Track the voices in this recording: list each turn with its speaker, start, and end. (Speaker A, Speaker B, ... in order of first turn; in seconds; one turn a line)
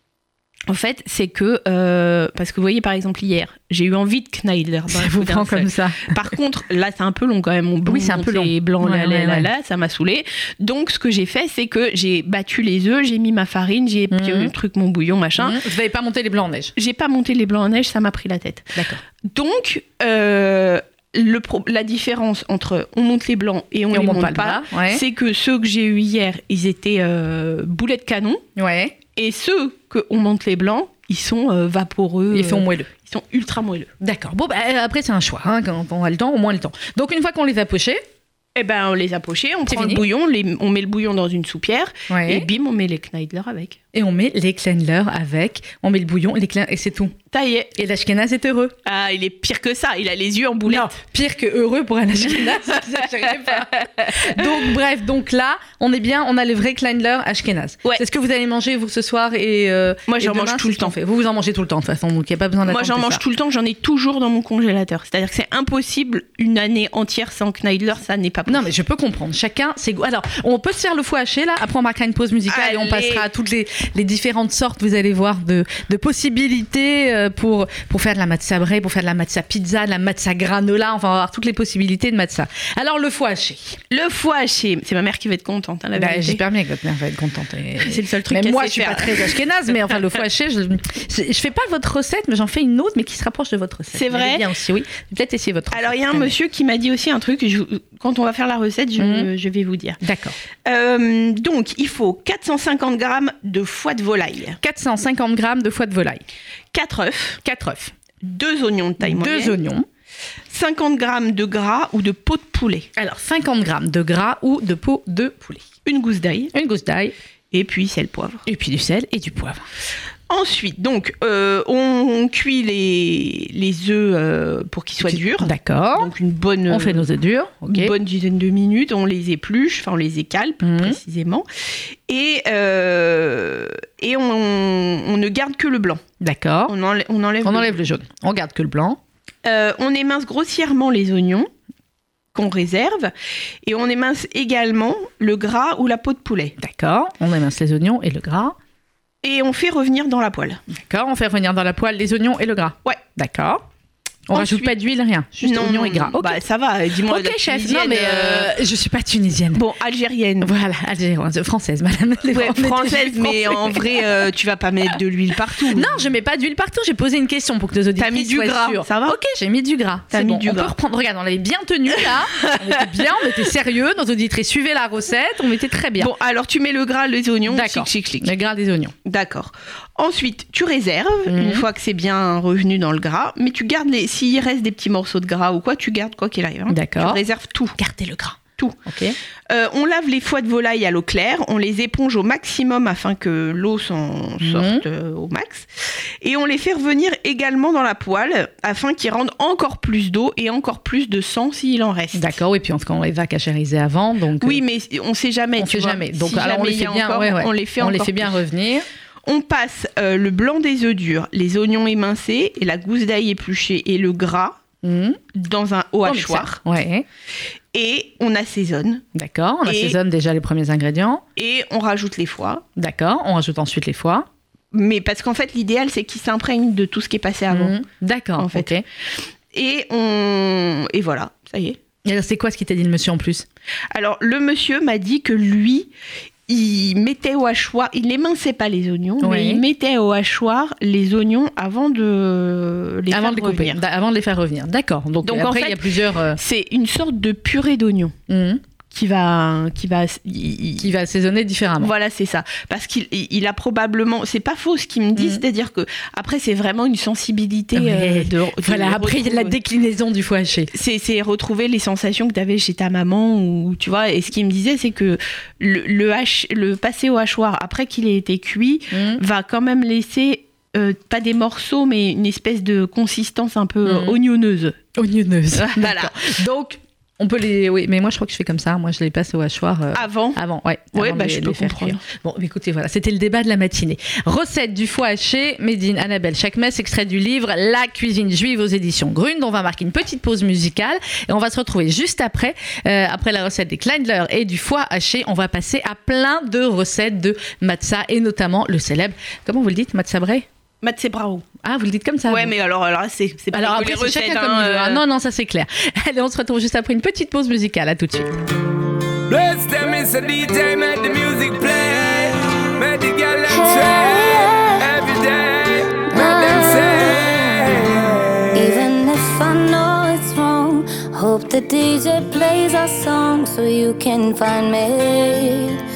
Speaker A: 0.7-15.6
Speaker B: 4.9-6.2
Speaker B: 7.9-9.5
Speaker B: 14.1-14.5
Speaker B: 15.4-16.7
Speaker A: 16.8-28.4
Speaker B: 18.8-19.0
Speaker B: 23.9-25.0
Speaker B: 28.6-28.9
Speaker A: 29.1-33.9
Speaker B: 32.3-32.9
Speaker B: 34.0-38.0
Speaker A: 38.5-43.8
Speaker B: 39.7-40.0
Speaker B: 42.1-42.5
Speaker B: 43.9-47.1
Speaker A: 47.3-47.7
Speaker B: 47.8-48.7
Speaker A: 48.8-51.0
Speaker B: 50.7-63.2
Speaker A: 53.8-54.5
Speaker A: 60.1-61.0
Speaker A: 62.6-68.7
Speaker B: 68.5-83.8
Speaker A: 72.5-73.2
Speaker A: 83.9-86.4
Speaker B: 86.0-96.3
Speaker A: 87.8-89.4
Speaker A: 93.9-94.5
Speaker A: 95.7-100.0
Speaker B: 99.0-99.3
Speaker B: 100.0-100.3
Speaker A: 100.6-104.6
Speaker B: 104.6-106.2
Speaker A: 106.7-107.4
Speaker B: 107.4-107.9
Speaker A: 108.2-109.5
Speaker B: 109.0-109.8
Speaker A: 110.5-112.9
Speaker B: 113.0-115.6
Speaker A: 115.8-116.5
Speaker B: 116.5-117.1
Speaker A: 117.5-118.4
Speaker B: 118.5-119.6
Speaker A: 120.3-127.1
Speaker B: 125.1-126.1
Speaker B: 126.7-127.9
Speaker A: 127.7-131.4
Speaker B: 130.6-131.0
Speaker A: 132.1-136.0
Speaker B: 136.2-136.7
Speaker A: 136.7-137.8
Speaker B: 137.4-139.0
Speaker A: 139.4-141.5
Speaker A: 142.3-143.1
Speaker A: 143.6-146.5
Speaker B: 146.6-148.6
Speaker A: 149.2-150.6
Speaker B: 150.7-153.6
Speaker B: 154.3-156.4
Speaker A: 154.3-154.7
Speaker A: 155.4-158.5
Speaker B: 157.1-159.6
Speaker A: 159.5-160.5
Speaker B: 160.4-164.1
Speaker A: 162.3-165.9
Speaker B: 165.7-176.1
Speaker A: 168.0-169.2
Speaker A: 170.1-170.7
Speaker A: 172.4-172.8
Speaker A: 176.0-178.3
Speaker B: 177.5-178.9
Speaker A: 179.0-187.8
Speaker B: 181.3-181.7
Speaker B: 186.7-187.2
Speaker B: 187.8-189.2
Speaker A: 189.5-202.3
Speaker B: 194.4-194.8
Speaker B: 202.1-204.6
Speaker A: 204.4-208.4
Speaker B: 205.6-208.8
Speaker A: 209.2-214.6
Speaker B: 214.8-215.2
Speaker A: 215.3-216.6
Speaker B: 216.0-217.1
Speaker A: 217.7-219.0
Speaker B: 219.1-221.2
Speaker A: 219.7-220.0
Speaker A: 221.3-222.6
Speaker B: 222.8-224.3
Speaker A: 224.7-227.8
Speaker B: 227.5-228.8
Speaker A: 228.4-228.8
Speaker A: 229.5-231.8
Speaker B: 232.0-233.4
Speaker A: 233.9-235.9
Speaker A: 236.5-243.8
Speaker B: 239.2-239.6
Speaker B: 243.1-246.4
Speaker A: 245.2-248.1
Speaker B: 248.3-248.6
Speaker A: 248.9-250.9
Speaker B: 250.8-251.9
Speaker A: 251.8-259.6
Speaker B: 255.2-255.4
Speaker B: 257.7-260.7
Speaker A: 260.7-274.8
Speaker B: 268.9-269.2
Speaker B: 273.8-274.2
Speaker B: 274.9-300.4
Speaker A: 275.5-276.3
Speaker A: 279.9-280.4
Speaker A: 280.9-282.0
Speaker A: 300.8-301.4
Speaker B: 301.6-302.5
Speaker A: 302.3-305.0
Speaker B: 303.5-308.4
Speaker C: 309.3-317.5
Speaker D: 313.6-314.8
Speaker D: 316.1-317.8
Speaker D: 318.5-325.8